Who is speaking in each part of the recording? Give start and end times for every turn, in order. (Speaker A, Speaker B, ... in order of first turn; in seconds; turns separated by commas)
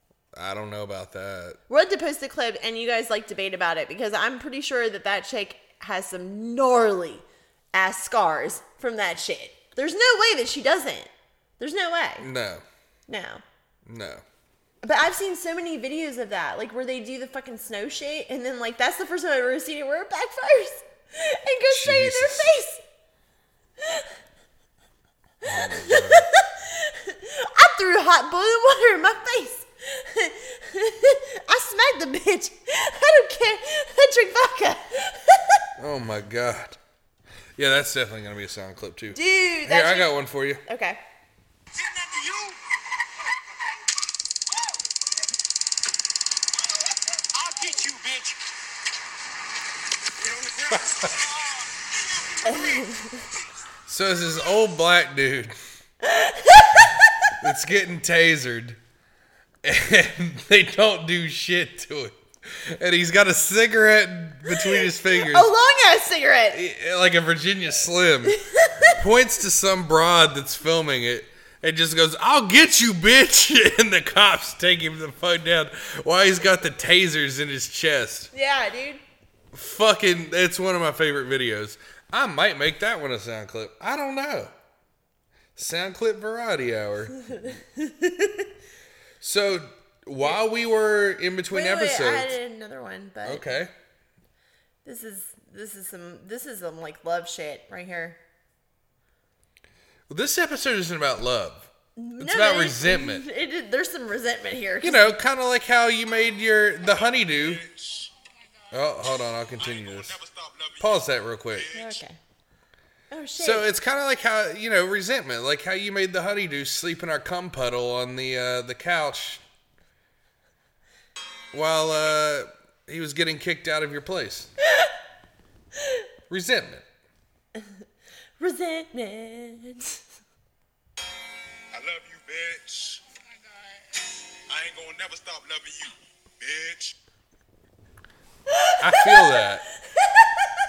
Speaker A: 0.3-1.6, Speaker B: 1.7-12.3, Speaker A: 12.2-12.6, Speaker B: 13.1-13.4, Speaker A: 13.9-14.2, Speaker B: 14.8-22.8, Speaker A: 21.7-22.5, Speaker A: 25.4-26.3, Speaker B: 25.6-35.6, Speaker A: 35.8-36.8, Speaker A: 37.6-40.6, Speaker B: 39.1-40.1, Speaker B: 40.7-41.0, Speaker C: 41.9-42.5, Speaker C: 47.4-48.4, Speaker C: 50.2-50.8, Speaker A: 50.7-51.1, Speaker B: 52.5-53.1, Speaker A: 53.9-55.6, Speaker B: 56.0-57.3, Speaker A: 57.4-58.8, Speaker A: 59.6-65.5, Speaker B: 64.5-66.6, Speaker A: 66.5-68.4, Speaker B: 68.3-69.0, Speaker A: 68.9-78.3, Speaker B: 78.3-79.0, Speaker A: 79.5-84.5, Speaker A: 85.6-87.5, Speaker B: 87.8-88.5, Speaker A: 89.2-92.3, Speaker B: 91.5-93.5, Speaker A: 93.2-93.7, Speaker B: 94.8-98.2, Speaker A: 100.1-103.3, Speaker B: 102.0-105.2, Speaker A: 104.8-107.6, Speaker C: 107.0-108.1, Speaker A: 108.7-110.2, Speaker C: 109.6-112.0, Speaker A: 110.8-111.8, Speaker B: 111.7-112.2, Speaker B: 113.1-113.7, Speaker A: 113.4-119.4, Speaker A: 121.5-124.5, Speaker A: 126.3-126.8, Speaker B: 128.4-130.0, Speaker C: 131.7-133.1, Speaker C: 134.5-137.0, Speaker B: 138.5-139.4, Speaker A: 138.8-139.6, Speaker B: 140.0-140.5